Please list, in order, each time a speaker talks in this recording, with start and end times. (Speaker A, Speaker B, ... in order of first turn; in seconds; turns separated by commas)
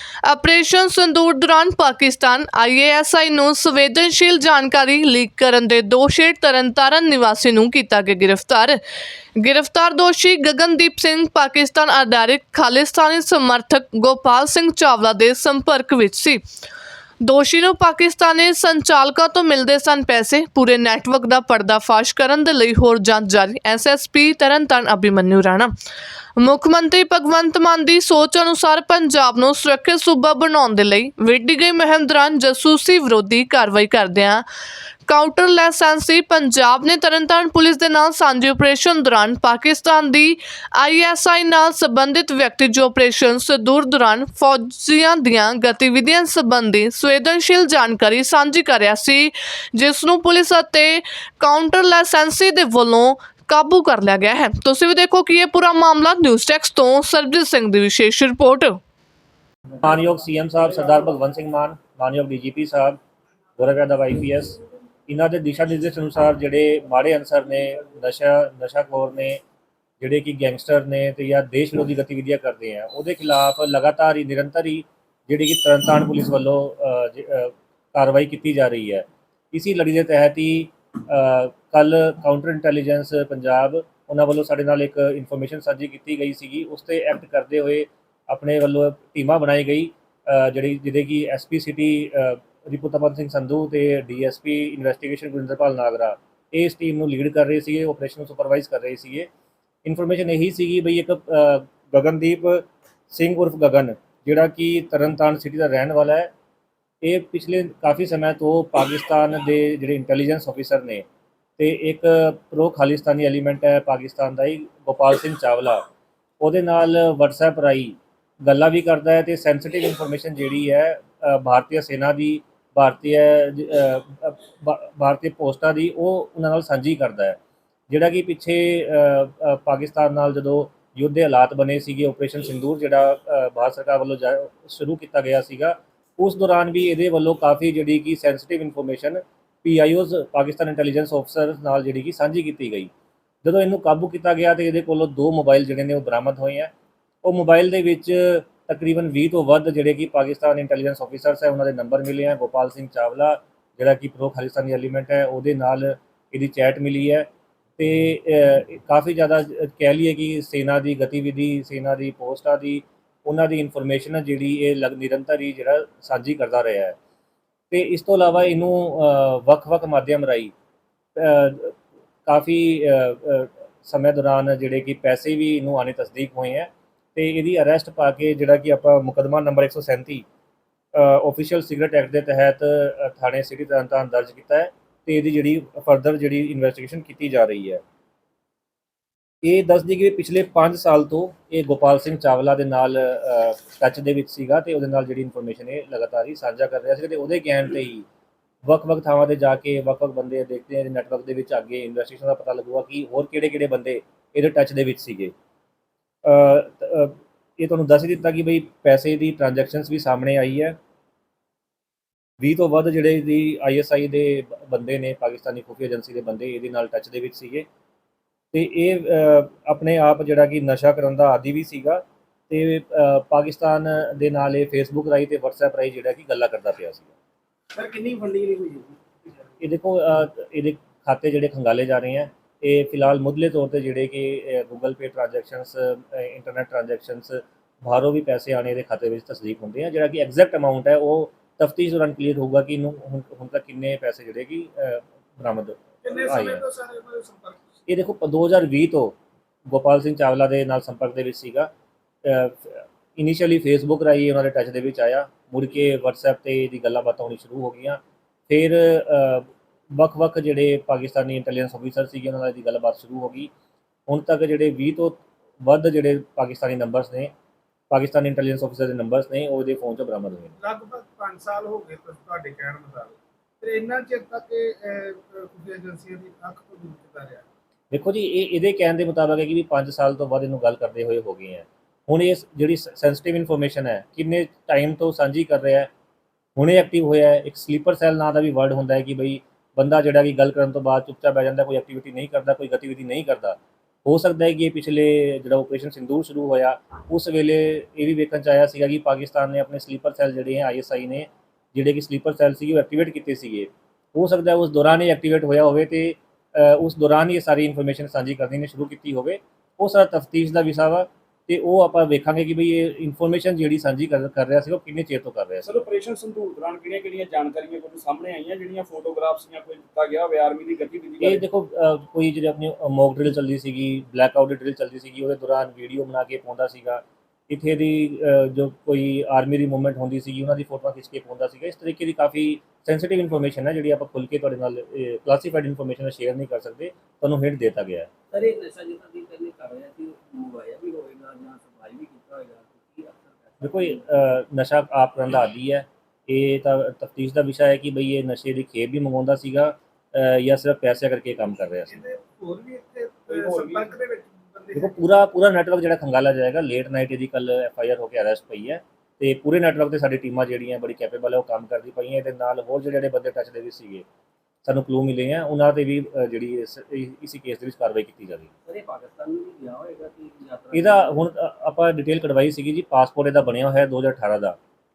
Speaker A: 0.2-8.8, Speaker A: 9.3-16.4, Speaker A: 17.2-25.7, Speaker A: 26.4-34.4, Speaker A: 35.1-58.8, Speaker B: 59.8-63.0, Speaker B: 63.6-69.4, Speaker B: 70.0-99.3, Speaker B: 99.8-106.3, Speaker B: 107.0-111.0, Speaker B: 111.6-115.8, Speaker B: 116.4-142.9, Speaker B: 143.4-146.7, Speaker B: 147.2-166.9, Speaker B: 167.7-170.5, Speaker B: 171.2-180.2, Speaker B: 180.9-187.8, Speaker B: 189.4-198.0, Speaker B: 198.6-205.3, Speaker B: 206.2-210.8, Speaker B: 212.4-217.7, Speaker B: 218.5-227.1, Speaker C: 227.8-228.9, Speaker B: 229.6-246.6, Speaker C: 246.0-247.6, Speaker B: 247.9-251.7, Speaker B: 252.2-263.5, Speaker B: 264.1-267.3, Speaker B: 267.9-270.5, Speaker C: 270.6-277.4, Speaker B: 277.9-285.9, Speaker B: 286.6-315.8, Speaker D: 315.6-321.4, Speaker B: 321.2-338.1, Speaker E: 338.3-344.0, Speaker B: 343.6-352.0, Speaker C: 351.9-355.0, Speaker D: 353.3-354.0, Speaker B: 354.7-364.0, Speaker B: 364.6-368.5, Speaker E: 368.6-371.2, Speaker B: 370.7-374.6